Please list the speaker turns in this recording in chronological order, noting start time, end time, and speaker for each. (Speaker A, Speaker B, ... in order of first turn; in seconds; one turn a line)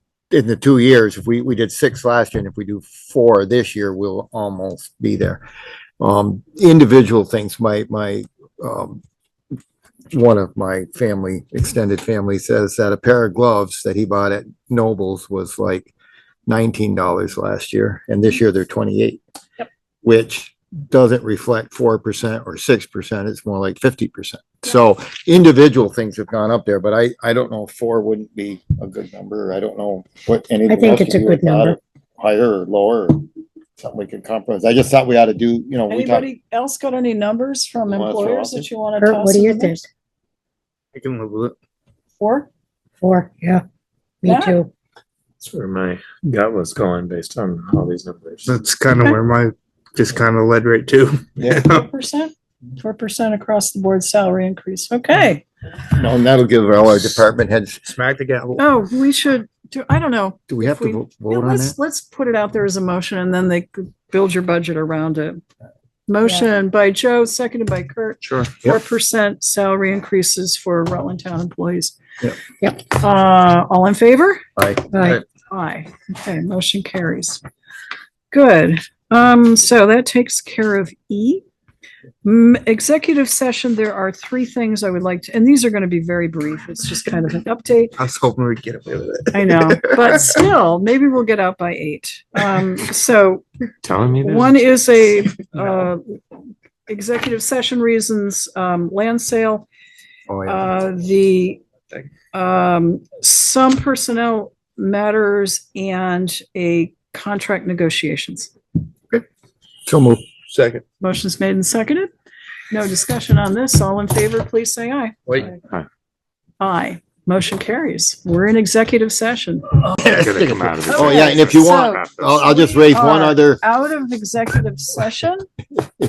Speaker A: 0.3-5.4
Speaker A: 6.0-9.0
Speaker A: 10.1-15.9
Speaker A: 16.5-19.2
Speaker A: 20.0-36.3
Speaker B: 30.7-31.8
Speaker C: 35.9-39.8
Speaker A: 37.9-38.7
Speaker B: 39.0-39.9
Speaker D: 40.9-41.5
Speaker C: 42.2-42.5
Speaker B: 43.0-43.6
Speaker B: 44.2-44.7
Speaker C: 44.2-44.6
Speaker E: 45.4-48.5
Speaker D: 48.5-51.8
Speaker A: 51.4-51.6
Speaker C: 51.5-55.4
Speaker A: 55.9-57.9
Speaker D: 57.9-58.6
Speaker C: 58.6-65.4
Speaker A: 60.5-61.7
Speaker C: 66.1-72.0
Speaker C: 72.8-74.4
Speaker A: 74.5-75.2
Speaker B: 74.9-75.2
Speaker C: 75.0-77.4
Speaker C: 78.3-81.4
Speaker C: 82.2-88.0
Speaker D: 88.0-90.2
Speaker C: 89.3-93.5
Speaker E: 93.8-94.6
Speaker C: 94.2-96.2
Speaker C: 96.9-99.7
Speaker A: 100.3-100.7
Speaker C: 100.5-101.6
Speaker C: 102.3-108.5
Speaker A: 109.9-110.2
Speaker D: 110.5-110.8
Speaker C: 111.0-112.1
Speaker C: 112.7-115.4
Speaker E: 115.6-115.9
Speaker C: 116.6-119.8
Speaker A: 119.8-123.6
Speaker E: 120.2-122.1
Speaker C: 120.9-125.5